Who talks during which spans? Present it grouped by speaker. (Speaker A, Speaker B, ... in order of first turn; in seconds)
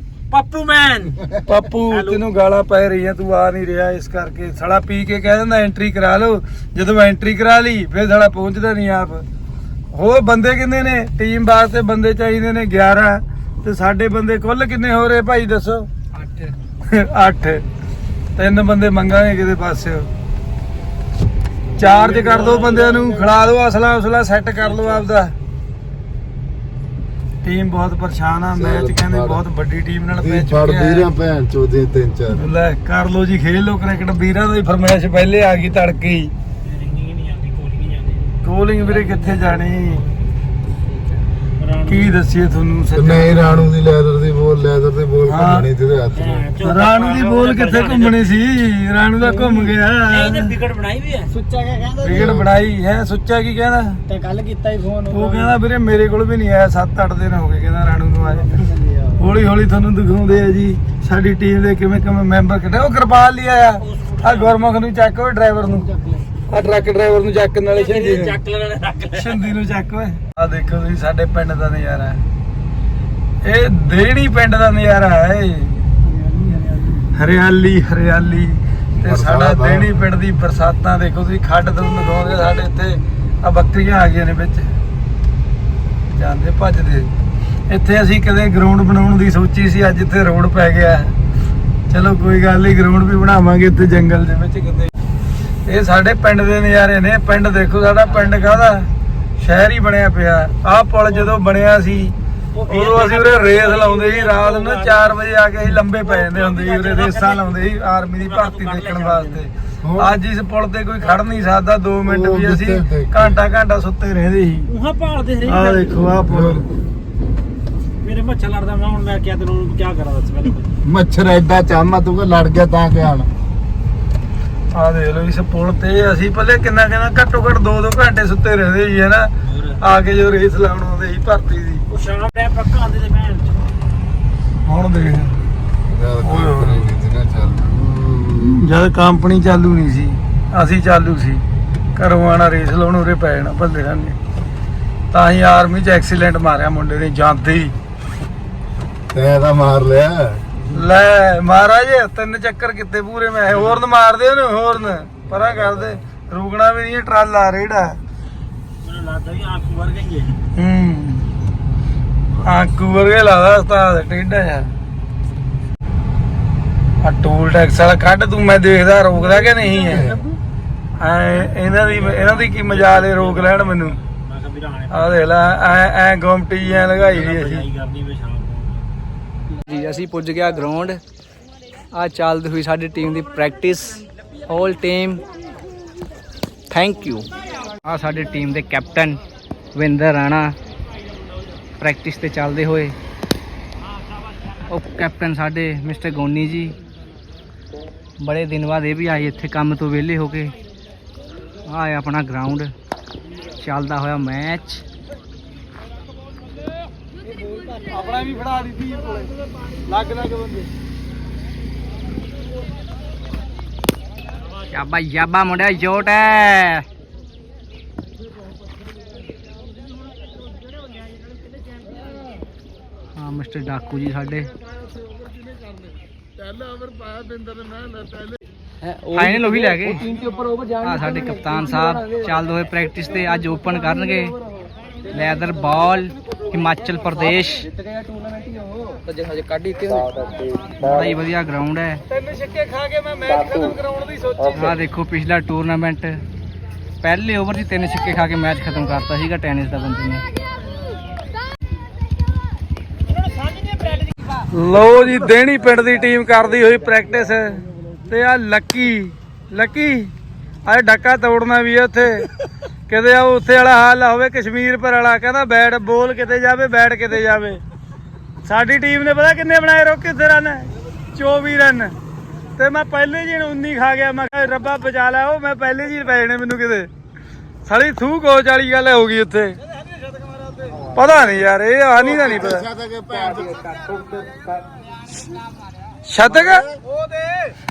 Speaker A: 0.3-1.3, 1.9-2.2, 21.8-23.2, 36.6-40.1, 41.5-42.2, 46.1-48.3, 49.2-52.0, 54.1-55.5, 58.5-59.1, 63.9-64.6, 65.9-66.2, 67.7-69.4, 76.1-76.9, 98.0-98.6, 102.5-105.2, 105.9-107.6, 108.2-109.4, 114.7-116.0, 118.0-120.7, 129.4-129.8, 131.9-133.6, 158.8-160.4, 171.3-175.3, 176.7-178.8, 253.6-254.0, 286.9-287.4
Speaker B: 1.3-9.2, 9.9-15.9, 16.8-17.6, 18.4-20.1, 21.8-25.3, 27.4-31.1, 32.3-36.3, 38.4-40.0, 41.9-43.7, 45.3-45.7, 46.6-50.5, 52.0-54.0, 55.1-58.6, 59.2-65.9, 66.5-68.4, 69.1-72.2, 73.4-75.9, 77.1-84.7, 86.1-87.1, 87.7-91.1, 91.9-94.9, 95.7-102.1, 102.7-114.7, 115.4-116.7, 124.7-131.8, 134.6-135.4, 136.2-136.9, 138.4-141.4, 141.9-144.2, 145.1-147.7, 150.7-158.0, 160.5-161.2, 162.4-164.7, 167.0-170.2, 171.0-174.0, 174.9-177.7, 207.9-209.3, 209.9-210.7, 242.1-244.7, 254.5-260.1, 260.6-262.3, 262.9-267.6, 268.4-271.9, 272.6-276.9, 277.6-279.6, 280.9-282.7, 286.1-286.7
Speaker C: 16.1-16.5, 179.6-181.0, 181.9-185.2, 186.7-187.3, 187.8-189.2, 189.7-190.6, 191.8-192.9, 194.7-196.7, 198.2-200.5, 201.7-202.7, 203.6-204.8, 214.7-216.8, 223.2-224.5, 228.8-234.4, 235.1-237.7, 239.1-240.1, 240.7-242.0, 244.5-246.2, 247.0-250.2
Speaker D: 28.6-29.4, 30.1-32.4, 42.9-46.4, 52.1-52.5, 79.0-79.9, 109.8-110.1, 112.0-113.3, 116.3-116.6, 120.8-123.3, 135.9-138.6, 149.1-150.4, 169.8-170.2, 282.0-283.8